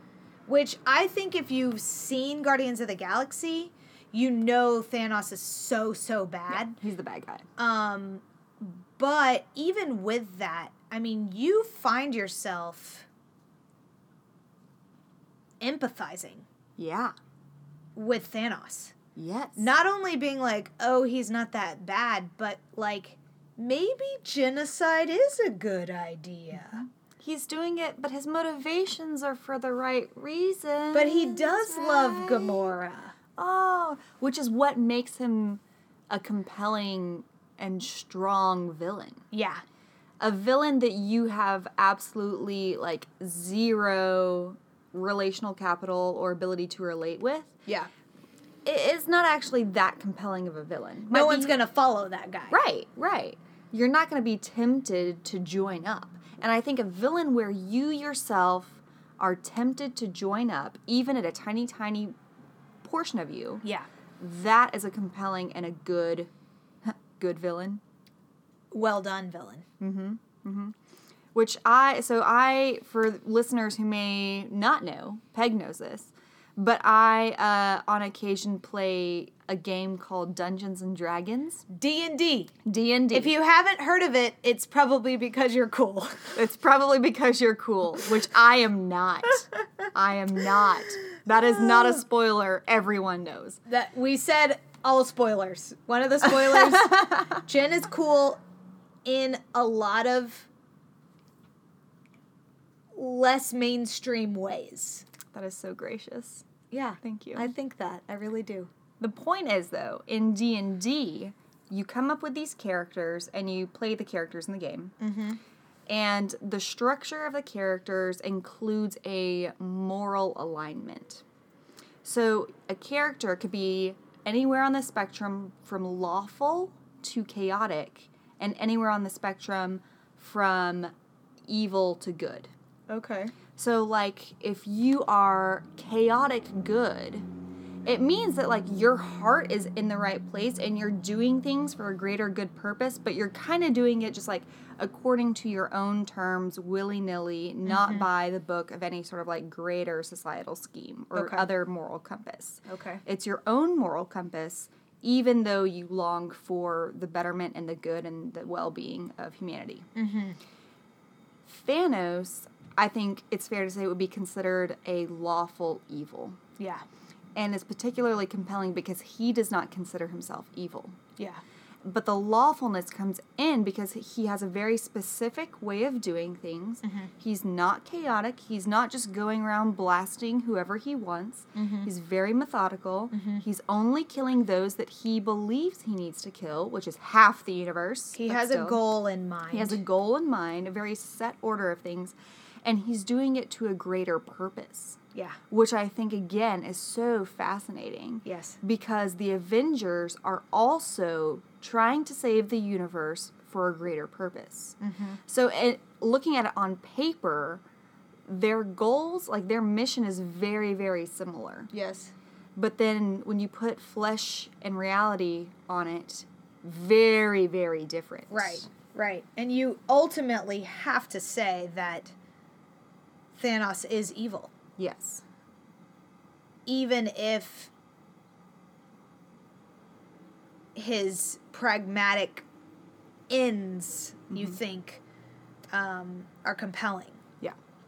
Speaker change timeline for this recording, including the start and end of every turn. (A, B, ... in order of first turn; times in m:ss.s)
0:00.5-0:06.8 A
0:06.5-0:07.4 B
0:07.6-0:13.1 A
0:15.6-0:16.4 A
0:16.8-0:17.1 B
0:18.0-0:19.0 A
0:19.2-0:19.7 B
0:19.6-0:26.8 A
0:27.2-0:32.8 B
0:30.9-0:33.1 A
0:33.4-0:39.2 B
0:39.3-0:39.6 A
0:40.2-0:47.5 B
0:48.6-0:51.6 B
0:51.1-0:52.6 A
0:52.5-1:02.2 B
1:02.8-1:03.6 B
1:04.2-1:06.3 B
1:06.8-1:07.8 B
1:08.7-1:09.6 A
1:09.8-1:10.7 B
1:11.3-1:21.6 B
1:21.7-1:22.5 A
1:22.6-1:23.3 B
1:23.1-1:26.4 A
1:26.4-1:33.6 B
1:33.7-1:38.4 A
1:36.5-1:37.3 B
1:39.0-1:40.5 A
1:43.0-1:45.1 A
1:45.3-1:46.4 B
1:46.7-1:48.7 A
1:47.0-1:47.5 B
1:49.0-1:54.9 B
1:55.0-1:55.4 A
1:55.9-2:01.2 B
2:02.0-2:10.9 B
2:11.5-2:12.5 B
2:12.9-2:13.3 A
2:13.4-2:17.3 B
2:17.8-2:39.9 B
2:27.6-2:28.1 A
2:31.2-2:31.5 A
2:32.7-2:33.0 A
2:40.0-2:40.4 A
2:41.5-2:46.4 B
2:46.6-2:46.8 A
2:47.4-2:51.0 B
2:51.2-2:51.4 A
2:51.8-3:08.8 B
2:56.8-2:57.1 A
3:01.6-3:01.9 A
3:03.1-3:03.4 A
3:08.1-3:09.8 A
3:09.5-3:15.0 B
3:15.5-3:24.8 B
3:18.2-3:18.6 A
3:24.8-3:25.2 A
3:25.3-3:27.6 B
3:28.3-3:31.7 B
3:31.7-3:32.1 A
3:32.6-3:38.7 B
3:38.3-3:42.1 A
3:43.3-3:44.5 A
3:44.8-3:45.2 B
3:46.7-3:47.7 A
3:50.8-3:52.5 A
3:53.3-3:55.0 A
3:55.7-3:57.2 A